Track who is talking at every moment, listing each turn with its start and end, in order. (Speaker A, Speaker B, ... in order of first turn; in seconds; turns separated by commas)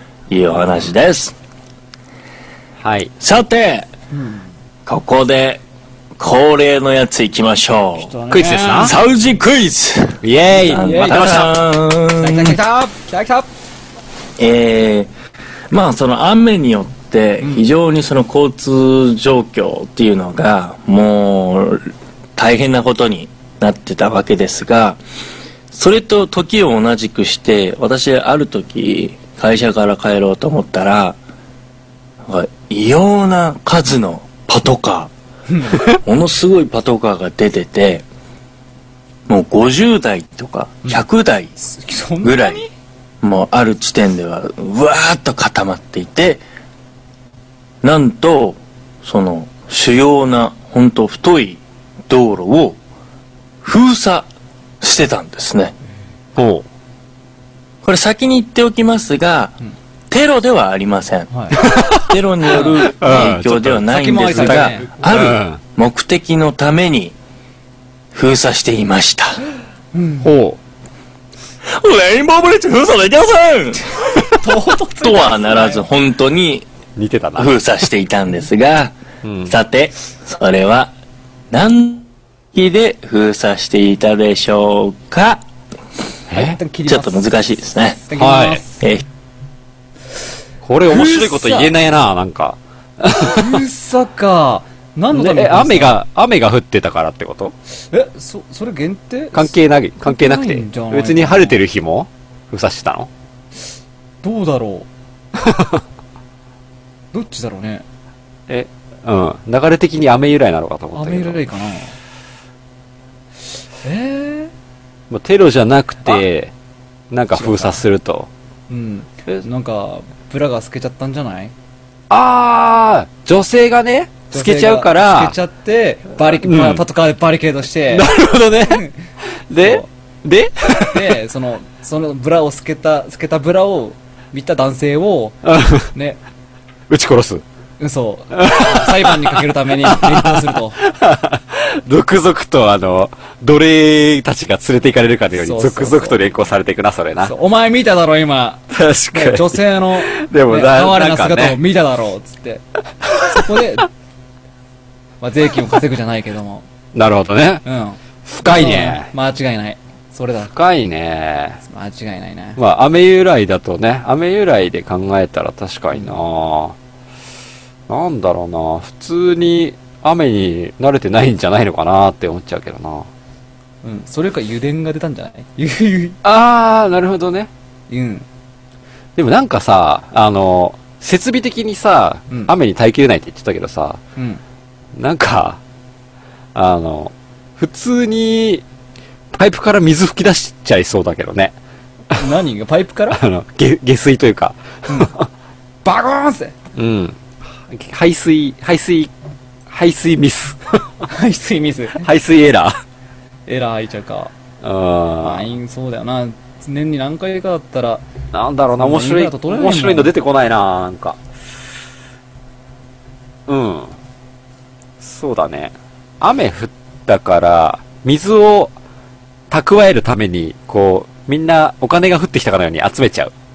Speaker A: 0.3-1.4, Speaker B: 2.8-3.1, Speaker A: 3.2-3.9, Speaker C: 4.1-4.5, Speaker A: 4.9-5.6, Speaker A: 6.2-8.1, Speaker C: 8.0-9.0, Speaker B: 8.3-8.9, Speaker A: 8.8-12.6, Speaker B: 10.2-11.5, Speaker C: 10.5-11.5, Speaker C: 12.2-13.5, Speaker A: 14.4-15.1, Speaker A: 15.7-25.0, Speaker C: 17.4-17.7, Speaker A: 25.7-31.2, Speaker A: 32.2-35.1, Speaker C: 35.5-35.8, Speaker A: 35.8-38.1, Speaker A: 39.3-41.5, Speaker C: 41.6-42.7, Speaker A: 42.2-42.6, Speaker A: 43.2-46.4, Speaker A: 47.8-52.8, Speaker A: 53.6-54.3, Speaker A: 54.8-55.8, Speaker B: 56.4-56.7, Speaker A: 57.8-59.6, Speaker A: 60.1-67.2, Speaker C: 61.3-61.6, Speaker B: 61.6-62.1, Speaker C: 62.5-65.1, Speaker B: 62.7-65.6, Speaker A: 68.1-69.4, Speaker C: 69.9-70.3, Speaker B: 70.2-70.6, Speaker A: 71.7-74.0, Speaker C: 74.3-75.9, Speaker A: 75.0-76.7, Speaker B: 77.0-77.5, Speaker A: 77.4-80.9, Speaker B: 79.2-79.5, Speaker A: 81.5-85.4, Speaker B: 86.3-86.6, Speaker C: 86.3-87.3, Speaker A: 86.9-88.0, Speaker C: 88.1-88.8, Speaker B: 88.2-88.6, Speaker A: 88.8-89.0, Speaker B: 90.6-93.6, Speaker C: 90.9-91.7, Speaker C: 93.2-96.0, Speaker B: 95.1-97.5, Speaker C: 97.9-101.6, Speaker B: 99.3-103.1, Speaker C: 104.2-104.9, Speaker B: 105.4-105.8, Speaker C: 107.1-107.8, Speaker B: 108.5-111.5, Speaker C: 110.9-112.0, Speaker C: 113.8-114.5, Speaker B: 115.1-116.5, Speaker B: 117.1-118.3, Speaker C: 117.3-117.8, Speaker C: 118.7-121.5, Speaker B: 122.1-125.3, Speaker C: 124.3-128.9, Speaker B: 126.3-126.8, Speaker B: 127.9-128.9, Speaker B: 129.5-131.2, Speaker C: 129.6-129.9, Speaker C: 130.9-136.2, Speaker B: 135.4-135.9, Speaker B: 136.9-137.4, Speaker C: 137.8-140.8, Speaker B: 138.3-147.3, Speaker C: 145.4-146.2, Speaker C: 147.2-152.6, Speaker B: 148.7-151.6, Speaker B: 153.0-153.6, Speaker C: 153.3-153.9, Speaker C: 155.2-156.7, Speaker B: 156.9-157.6, Speaker C: 157.7-160.5, Speaker B: 158.2-159.1, Speaker B: 160.5-161.6, Speaker C: 161.6-162.6, Speaker B: 162.6-166.8, Speaker B: 167.9-173.1, Speaker C: 173.8-176.2, Speaker B: 176.2-177.5, Speaker C: 177.9-178.2, Speaker B: 179.2-184.0, Speaker C: 184.2-184.4, Speaker B: 184.9-185.6, Speaker B: 186.5-188.6, Speaker B: 189.3-191.5, Speaker C: 192.1-193.2, Speaker B: 193.1-195.3, Speaker C: 195.8-196.6, Speaker B: 196.8-199.1, Speaker B: 199.7-200.9, Speaker C: 201.1-202.1, Speaker B: 202.0-202.8, Speaker C: 203.5-204.3, Speaker B: 204.6-205.5, Speaker C: 205.2-208.0, Speaker B: 208.3-211.2, Speaker C: 208.8-210.1, Speaker B: 213.5-213.9, Speaker B: 215.0-218.7, Speaker B: 219.5-223.3